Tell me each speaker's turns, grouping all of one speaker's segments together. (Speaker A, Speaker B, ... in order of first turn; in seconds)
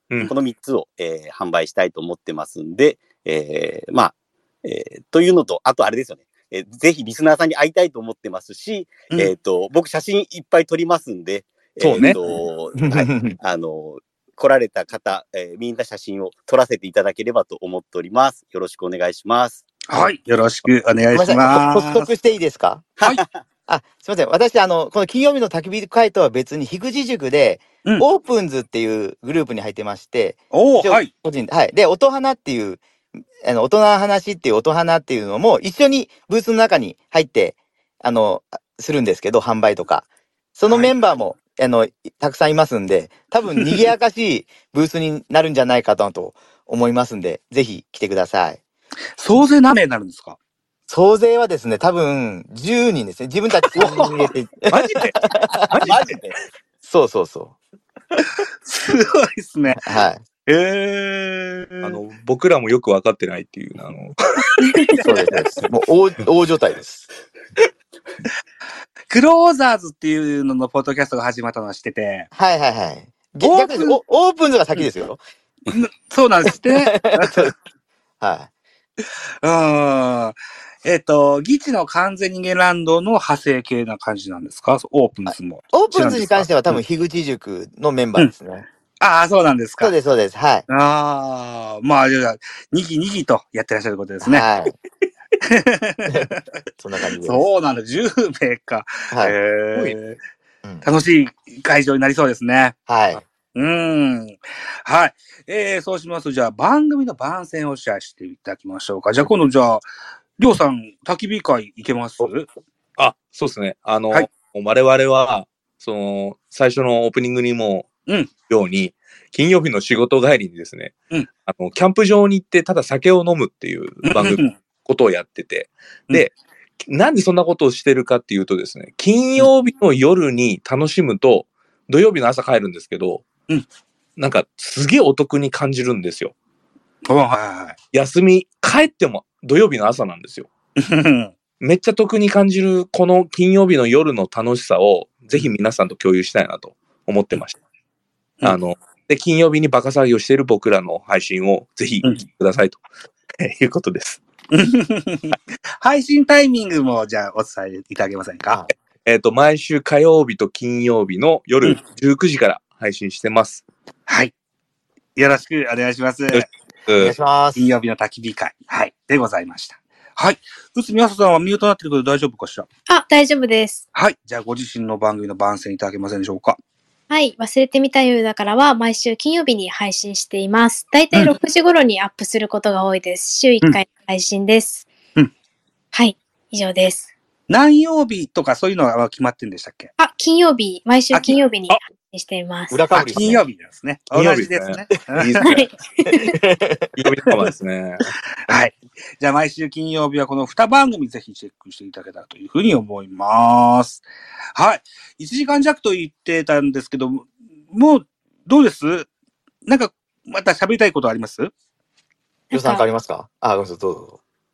Speaker A: 0.3-19.7, 23.0-23.4, 55.8-56.4
Speaker B: 11.8-12.2, 54.7-55.2, 55.7-56.1, 61.8-64.2, 113.0-117.9, 118.5-120.9, 121.5-126.3, 126.8-133.2, 134.2-136.3, 137.9-140.5, 141.6-147.6, 148.4-152.8, 153.4-154.2, 159.1-163.6, 166.3-167.2, 194.1-195.7, 197.0-198.1
Speaker C: 12.8-13.4, 21.1-22.9, 23.7-32.8, 33.4-48.6, 50.9-55.7, 56.8-57.6, 59.7-60.2, 65.0-67.1, 72.3-75.2, 76.5-77.5, 78.2-78.5, 85.3-88.7, 89.8-90.7, 94.2-94.8, 96.8-97.5, 102.9-103.2, 167.0-167.7, 192.7-193.4, 196.2-196.9, 212.5-214.2
Speaker D: 19.9-22.1, 30.5-31.1, 40.7-40.9, 49.2-50.4, 53.8-54.3, 58.6-59.9, 60.5-62.0, 69.1-72.3, 73.4-74.0, 75.7-77.5, 79.4-86.8, 89.0-89.9, 90.7-94.5, 95.4-96.4, 97.2-100.2, 100.8-102.8, 103.5-109.9, 110.4-112.5, 124.1-124.5, 137.1-137.8, 140.8-141.3, 154.5-158.6, 164.1-164.3, 165.2-166.5, 167.6-172.7, 173.9-176.6, 187.5-189.9, 191.1-191.4, 192.9-195.5, 198.5-209.1, 209.7-211.5
Speaker E: 64.6-65.0, 172.9-173.8, 177.1-184.9, 185.9-187.1, 190.0-192.9, 195.4-196.4, 212.5-212.8